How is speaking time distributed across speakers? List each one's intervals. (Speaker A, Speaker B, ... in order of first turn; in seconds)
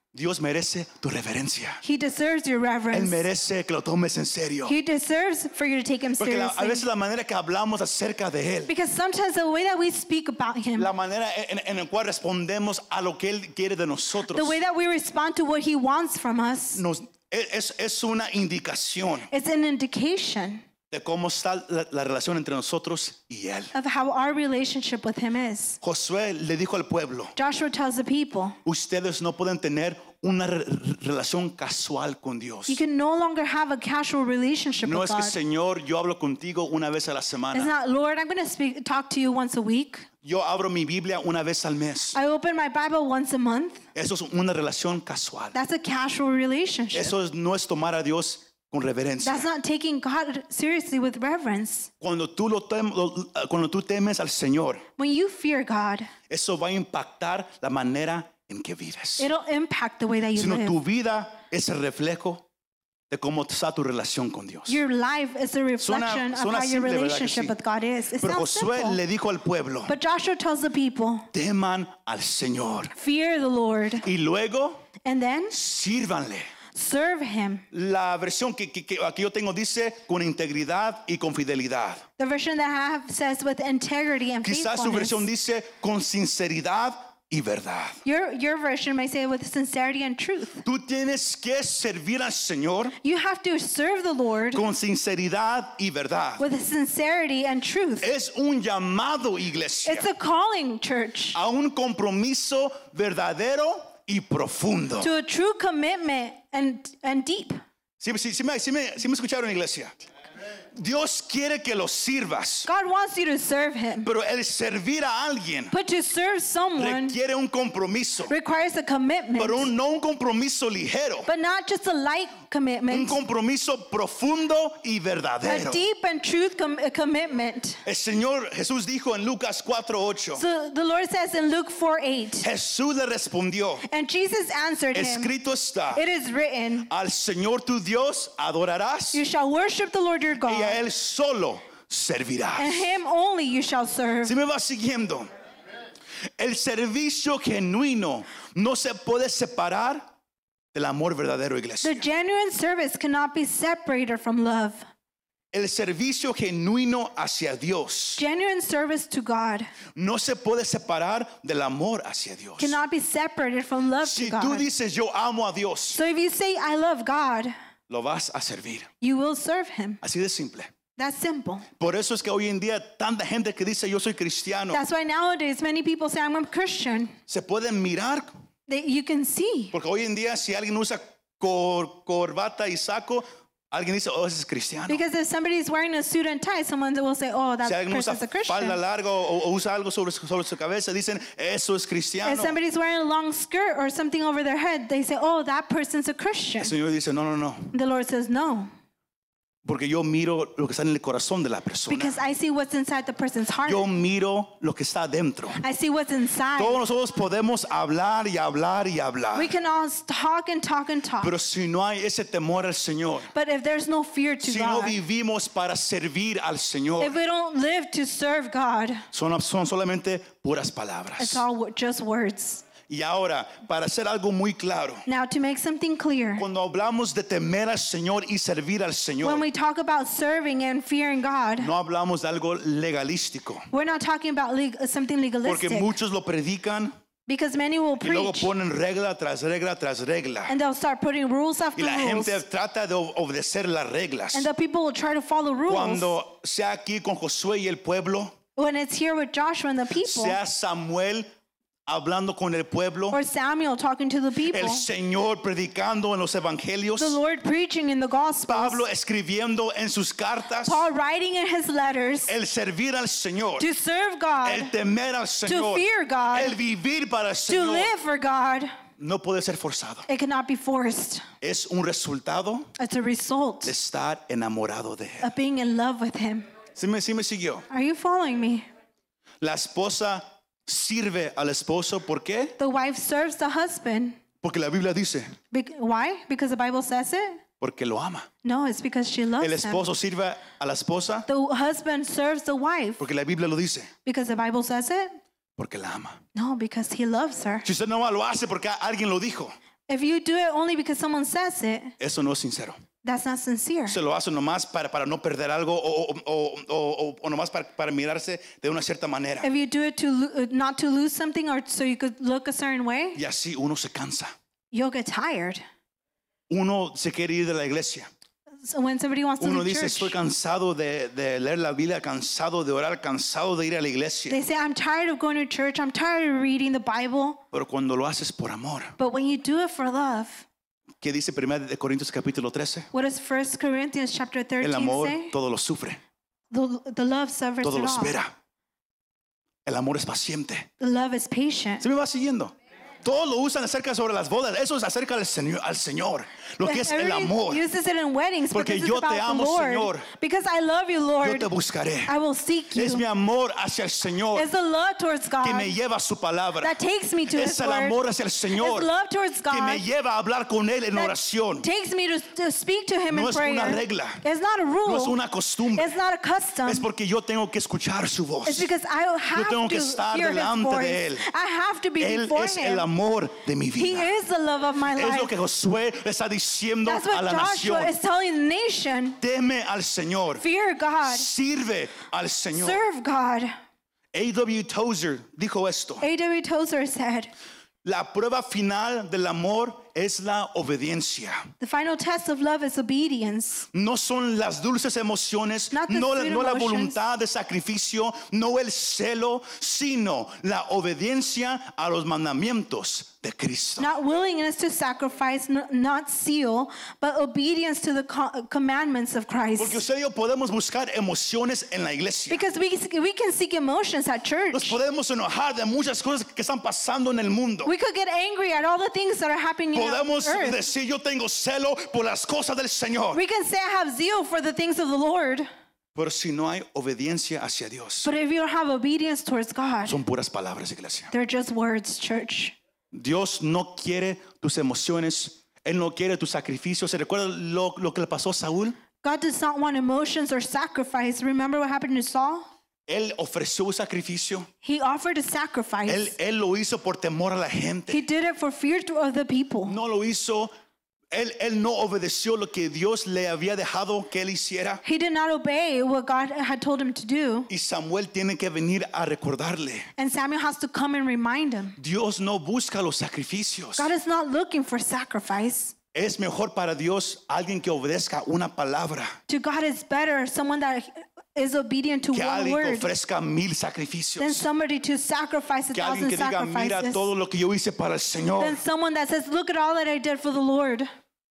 Speaker A: 0.1-1.8, 2.9-4.8, 6.2-8.7, 10.8-14.6, 16.8-19.3, 20.9-23.7, 25.8-27.3, 28.6-32.8, 34.8-37.7, 40.2-42.2, 44.0-45.5, 46.9-49.5, 52.0-54.8, 56.3-59.3, 60.4-62.5, 63.1-64.8, 65.8-67.5, 68.2-69.9, 71.3-72.9, 74.0-74.8, 75.5-76.5, 77.7-82.0, 84.4-88.0, 90.6-93.0, 94.5-96.4, 98.0-100.1, 101.3-105.1, 108.0-110.0, 110.7-112.7, 114.0-115.7, 116.8-118.3, 119.4-121.3, 122.9-125.8, 127.8-130.4, 132.4-133.8, 134.9-136.0, 136.9-139.2, 140.4-142.9, 144.2-145.3, 146.4-150.1, 150.7-152.1, 155.5-158.2, 159.9-162.8, 164.0-166.0, 167.9-168.9, 170.0-170.7, 171.8-174.8, 177.3-178.3, 179.7-185.0, 187.7-192.6, 196.6-197.7, 199.7-202.2, 203.7-205.6, 206.6-209.5, 211.2-213.3, 214.4-217.2, 219.1-221.4, 222.9-225.1, 226.4-229.4, 231.6-233.7, 235.4-236.9, 238.0-240.5, 241.8-244.5, 245.7-248.3, 250.0-251.3, 251.9-253.2, 254.5-257.2, 258.5-260.8, 262.3-263.7, 264.4-267.9, 269.0-270.1, 271.4-272.7, 273.6-275.3, 276.8-277.6, 279.4-282.6, 284.4-285.3, 287.6-288.3, 289.4-291.3, 293.0-293.9, 295.6-296.2, 297.6-299.5, 302.0-302.8, 303.9-309.5, 313.2-314.3, 316.5-318.1, 319.4-324.4, 327.5-328.9, 331.0-332.9, 334.6-336.0, 337.6-338.3, 339.7-340.7, 341.8-347.6, 348.5-350.1, 351.2-352.1, 352.7-354.5, 355.4-356.8, 357.3-358.9, 359.5-361.7, 363.1-364.2, 364.9-365.9, 366.7-368.7, 369.3-371.3, 372.0-374.1, 374.9-377.9, 379.2-380.4, 381.0-382.8, 384.1-386.1, 387.8-391.4, 393.7-403.9, 409.6-412.4, 414.5-417.7, 419.7-423.2, 425.9-428.1, 429.9-431.1, 432.9-438.8, 442.9-444.5, 445.9-448.0, 449.7-450.5, 451.1-454.8, 457.5-459.9, 461.8-463.9, 465.9-469.1, 472.1-474.4, 475.7-478.6
Speaker B: 1.8-3.3, 4.7-6.9, 8.7-10.9, 14.3-16.8, 19.3-20.6, 23.7-25.8, 27.4-28.6, 32.7-35.4, 37.5-40.1, 42.1-43.8, 45.5-47.1, 49.2-51.9, 55.0-56.1, 59.2-60.8, 64.7-69.0, 69.9-71.3, 72.9-74.1, 75.0-75.5, 76.7-77.7, 82.2-85.3, 88.0-90.6, 93.0-94.6, 96.4-98.1, 99.9-101.4, 105.0-107.6, 112.7-114.1, 115.7-117.2, 118.3-119.7, 121.3-123.2, 125.4-127.8, 130.3-132.5, 133.9-135.3, 135.9-136.9, 139.1-140.8, 142.6-144.3, 151.8-154.8, 158.2-159.7, 162.6-164.7, 165.9-167.5, 169.0-170.0, 171.0-171.7, 174.7-177.2, 178.7-179.8, 184.9-188.8, 192.2-196.7, 197.7-198.7, 201.9-203.9, 205.6-206.8, 209.3-211.3, 213.3-215.0, 217.0-219.1, 221.2-222.7, 225.1-226.5, 229.2-231.7, 233.7-236.0, 237.3-238.5, 240.5-242.4, 244.3-246.2, 248.6-250.4, 253.1-254.8, 257.0-258.8, 260.6-262.3, 263.6-264.7, 265.5-266.6, 267.5-268.7, 270.1-271.2, 272.8-273.7, 275.2-276.5, 277.7-278.7, 282.6-284.2, 285.5-287.4, 288.4-289.8, 291.3-293.0, 294.1-295.1, 296.3-297.7, 299.9-301.9, 303.0-304.0, 309.4-313.2, 314.7-315.6, 318.6-320.2, 324.3-327.4, 329.0-330.5, 332.9-335.3, 336.5-338.2, 340.8-341.9, 346.6-351.5, 352.1-353.1, 354.3-355.7, 356.6-358.0, 358.5-359.9, 360.9-365.2, 365.7-366.9, 368.4-372.9, 373.8-375.3, 376.9-379.2, 380.4-381.3, 382.5-383.5, 386.0-387.3, 391.6-393.7, 395.7-397.0, 403.8-409.8, 412.3-414.8, 417.6-420.6, 423.1-425.5, 428.0-430.0, 431.1-432.6, 439.0-442.5, 444.6-446.1, 447.9-449.8, 454.8-457.5, 460.0-461.8, 463.8-465.7, 469.3-472.9, 474.2-477.1, 478.4-480.9